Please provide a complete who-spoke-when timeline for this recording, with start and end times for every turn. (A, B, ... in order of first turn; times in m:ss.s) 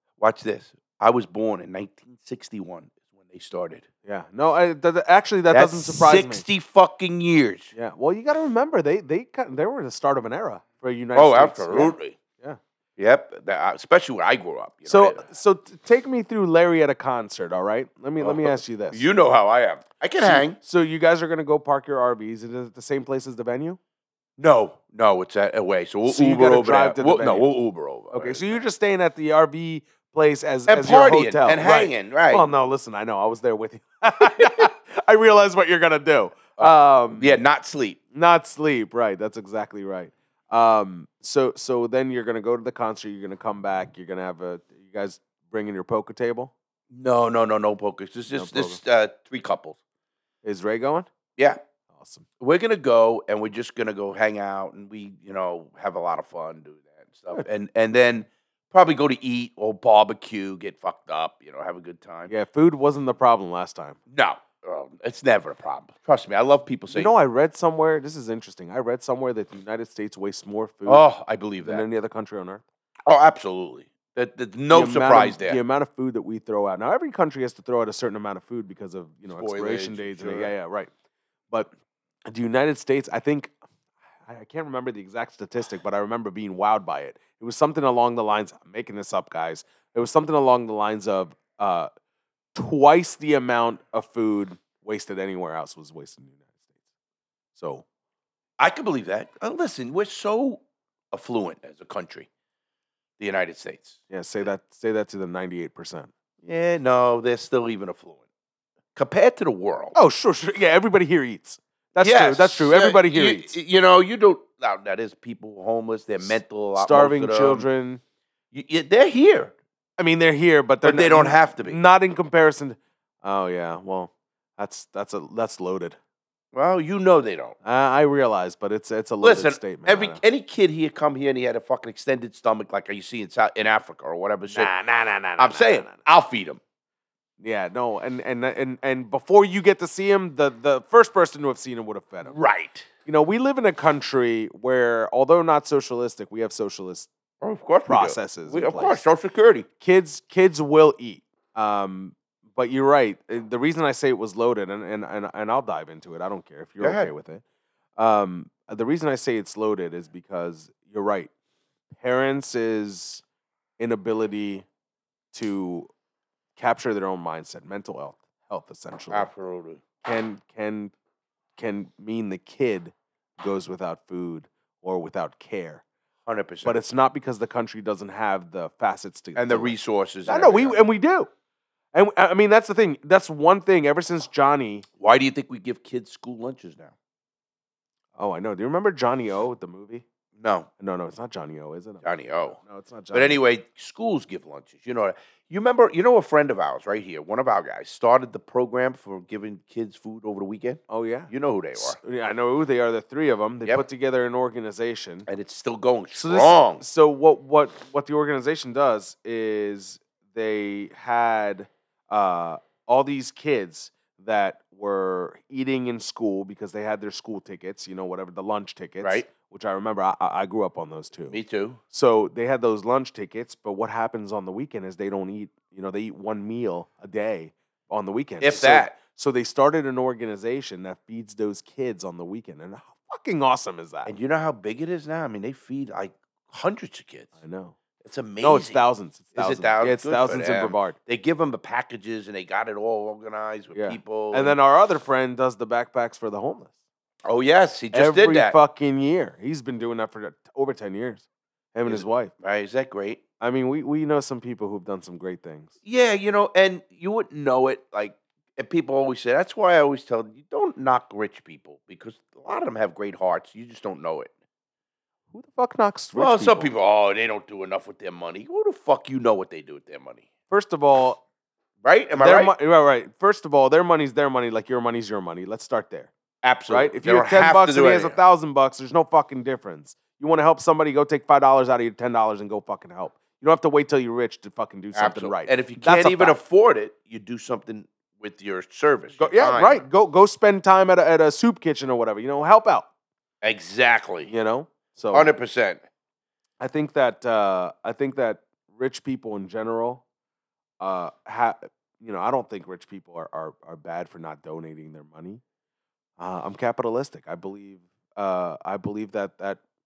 0:00.2-0:03.8 A
0:04.0-0:06.4 B
0:05.5-0:07.7 A
0:07.7-0:12.6 B
0:11.2-0:12.2 A
0:13.0-0:15.2 A
0:14.9-0:19.0 B
0:18.2-0:20.6 A
0:20.2-0:23.8 B
0:24.4-0:28.6 A
0:26.0-0:27.5 B
0:28.1-0:37.4 B
0:30.7-0:32.4 A
0:36.6-0:38.0 A
0:38.1-0:46.5 B
0:46.9-0:49.8 A
0:48.3-0:48.8 B
0:50.4-0:51.1 B
0:51.9-0:52.2 B
0:52.4-1:02.3 A
1:02.3-1:04.0 B
1:04.1-1:07.1 A
1:06.9-1:11.0 B
1:10.8-1:11.8 A
1:11.6-1:12.6 B
1:13.1-1:15.6 A
1:14.7-1:20.9 B
1:19.3-1:20.5 A
1:22.3-1:23.5 B
1:24.2-1:31.9 B
1:32.5-1:36.6 B
1:37.5-1:37.8 B
1:38.6-1:42.3 A
1:43.2-1:44.0 A
1:44.1-1:46.1 B
1:46.4-1:48.2 A
1:49.0-1:49.9 A
1:49.9-1:53.5 B
1:52.0-1:57.6 A
1:56.2-1:58.0 B
1:58.5-1:59.5 A
2:00.0-2:06.0 B
2:00.8-2:01.8 A
2:06.5-2:07.6 A
2:07.6-2:10.2 B
2:09.2-2:14.7 A
2:14.5-2:16.0 B
2:15.4-2:16.6 A
2:17.4-2:22.3 B
2:22.2-2:22.9 A
2:23.0-2:27.1 B
2:27.4-2:29.7 A
2:27.9-2:29.0 B
2:29.8-2:37.4 B
2:36.8-2:37.1 A
2:38.0-2:41.3 B
2:41.9-2:43.2 B
2:43.8-2:44.6 B
2:45.3-2:45.9 B
2:46.6-2:49.3 B
2:49.1-2:49.8 A
2:50.0-2:50.9 B
2:51.6-2:55.8 B
2:56.3-2:56.8 A
2:56.6-2:59.7 B
2:59.4-3:00.8 A
3:00.2-3:01.3 B
3:01.9-3:04.8 B
3:05.0-3:06.9 A
3:08.2-3:10.0 B
3:10.4-3:10.7 A
3:10.8-3:12.0 B
3:12.0-3:12.6 A
3:12.6-3:13.4 B
3:13.1-3:22.0 A
3:20.9-3:25.3 B
3:25.3-3:26.8 A
3:26.1-3:41.4 B
3:39.0-3:39.3 A
3:41.3-3:41.8 A
3:41.9-3:54.1 B
3:48.4-3:48.9 A
3:54.0-3:57.3 A
3:57.4-3:57.8 B
3:58.0-3:58.8 A
3:58.4-4:00.9 B
3:59.3-4:04.6 A
4:03.7-4:06.7 B
4:07.2-4:08.6 A
4:07.9-4:12.3 B
4:11.8-4:13.2 A
4:13.4-4:15.7 B
4:15.8-4:24.3 A
4:25.3-4:26.7 B
4:26.1-4:30.2 A
4:30.5-4:31.2 B
4:31.8-4:32.5 A
4:32.2-4:36.1 B
4:36.4-4:38.2 A
4:36.7-4:46.4 B
4:44.9-4:49.8 A
4:49.2-4:52.8 B
4:53.4-4:54.3 A
4:54.3-4:55.3 B
4:55.1-4:55.8 A
4:56.6-5:00.0 B
5:00.8-5:05.4 B
5:06.2-5:09.6 B